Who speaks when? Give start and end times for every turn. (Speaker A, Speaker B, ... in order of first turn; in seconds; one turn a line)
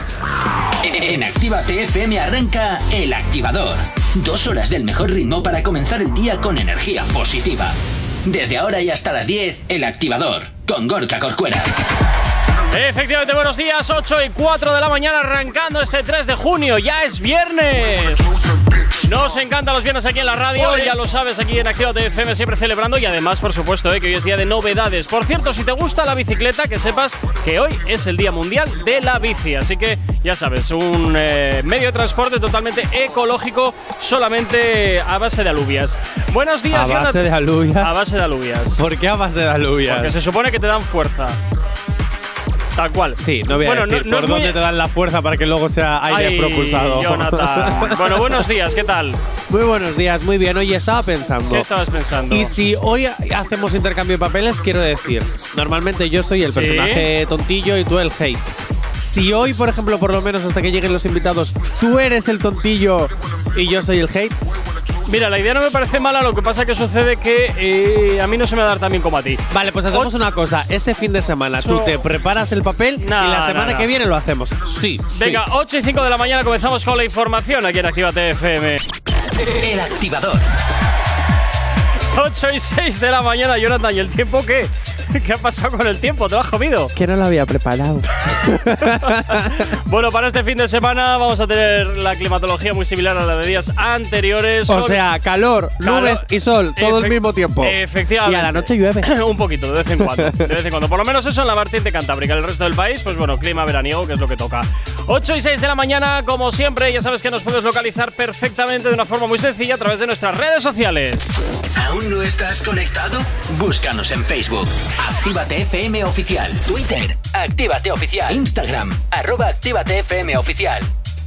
Speaker A: 0.8-11.7
Speaker B: 12.7-18.4
Speaker B: 18.9-38.8
Speaker C: 36.7-38.0
Speaker C: 38.8-40.2
Speaker B: 39.9-41.4
Speaker B: 42.8-44.6
Speaker C: 43.2-48.4
Speaker B: 46.1-49.2
Speaker C: 49.5-51.7
Speaker B: 51.5-52.7
Speaker C: 52.3-58.4
Speaker B: 56.4-57.1
Speaker C: 59.0-64.4
Speaker B: 65.0-70.1
Speaker C: 69.5-75.4
Speaker B: 71.6-72.0
Speaker B: 73.0-73.9
Speaker B: 75.1-78.8
Speaker A: 79.4-80.5
Speaker B: 82.1-86.9
Speaker C: 87.0-89.6
Speaker B: 89.1-95.0
Speaker C: 94.7-99.1
Speaker B: 95.8-111.4
Speaker A: 111.8-120.9